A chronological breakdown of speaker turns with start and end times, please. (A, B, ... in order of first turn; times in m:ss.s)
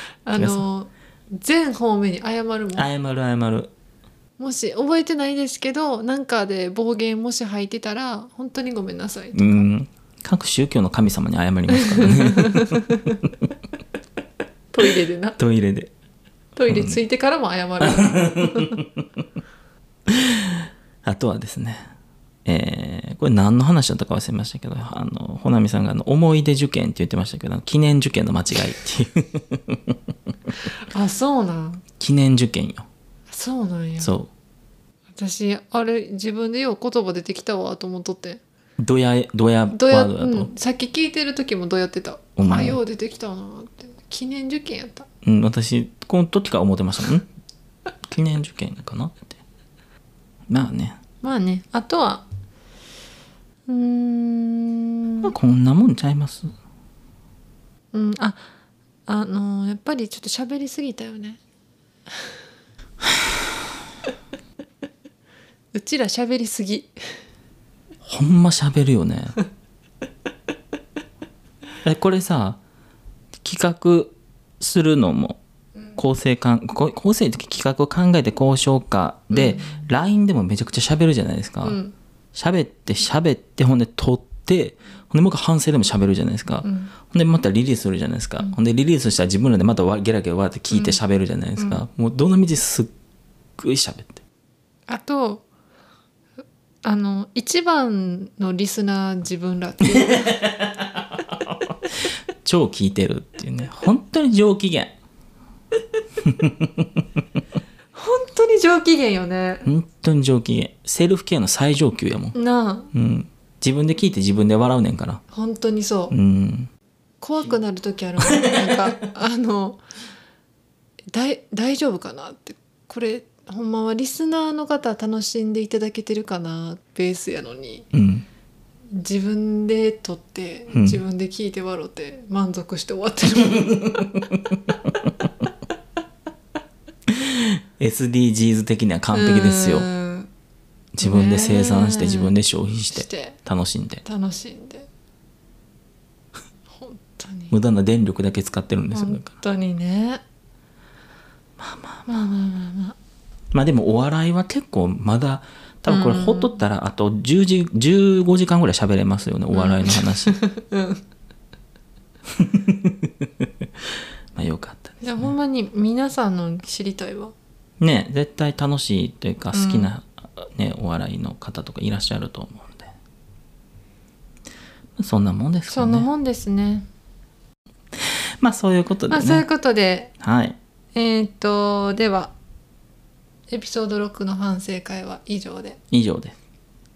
0:00.3-0:02.9 A
0:00.3-0:00.6 B
0:02.8-0:03.7 B
0:04.4-0:09.7 A
0:09.3-0:12.9 B
0:11.8-0:13.2 A
0:14.7-0:15.4 A
0:15.4-0:15.9 B
0:16.6-0:18.8 A
0:16.7-0:17.0 B
0:17.9-0:19.0 B
0:20.1-0:21.9 B
0:22.5-0:30.0 B
0:30.9-0:31.8 A
0:32.0-0:32.9 B
0:33.3-0:34.1 A
0:34.0-0:34.3 B
0:35.2-0:38.4 A
0:38.8-0:40.5 B
0:39.7-0:45.1 A
0:42.4-0:42.8 B
0:45.2-0:47.3 B
0:48.1-0:49.4 B
0:50.5-0:51.0 B
0:51.2-0:52.3 A
0:53.7-0:55.3 A
0:55.3-0:56.5 B
0:57.9-0:58.5 A
0:59.1-1:01.4 A
1:05.7-1:07.1 A
1:08.1-1:09.4 B
1:11.8-1:12.6 B
1:13.4-1:15.4 B
1:16.0-1:21.8 B
1:19.3-1:19.7 A
1:21.6-1:21.9 A
1:22.3-1:32.9 B
1:26.6-1:26.9 A
1:30.7-1:31.0 A
1:33.6-1:34.2 B
1:34.9-1:35.4 A
1:36.8-1:40.3 A
1:40.2-1:41.7 B
1:42.4-1:44.9 B
1:46.2-1:46.9 B
1:47.9-1:49.7 A
1:49.6-1:52.4 B
1:52.4-1:52.9 A
1:52.9-1:55.2 B
1:55.3-1:56.1 A
1:56.1-1:56.7 B
1:57.2-1:59.8 A
1:58.4-1:58.7 B
2:01.1-2:07.9 A
2:07.9-2:08.2 B
2:08.9-2:14.0 A
2:10.7-2:11.0 B
2:17.1-2:19.9 B
2:19.1-2:20.3 A
2:21.0-2:24.0 B
2:21.0-2:22.4 A
2:22.9-2:23.4 A
2:24.0-2:24.9 A
2:26.7-2:27.6 A
2:27.5-2:29.3 B
2:28.9-2:30.2 A
2:31.6-2:32.1 B
2:32.1-2:33.0 A
2:33.5-2:40.4 B
2:35.9-2:36.6 A
2:39.5-2:41.0 A
2:42.4-2:43.1 B
2:44.4-2:45.3 B
2:45.0-2:47.3 A
2:47.8-2:52.9 B
2:49.5-2:49.9 A
2:55.0-2:56.1 B
2:55.7-2:56.9 A
2:58.1-2:59.4 B
2:59.1-3:00.1 A
3:00.2-3:00.6 B
3:01.0-3:02.3 A
3:03.5-3:05.8 A
3:05.9-3:06.4 B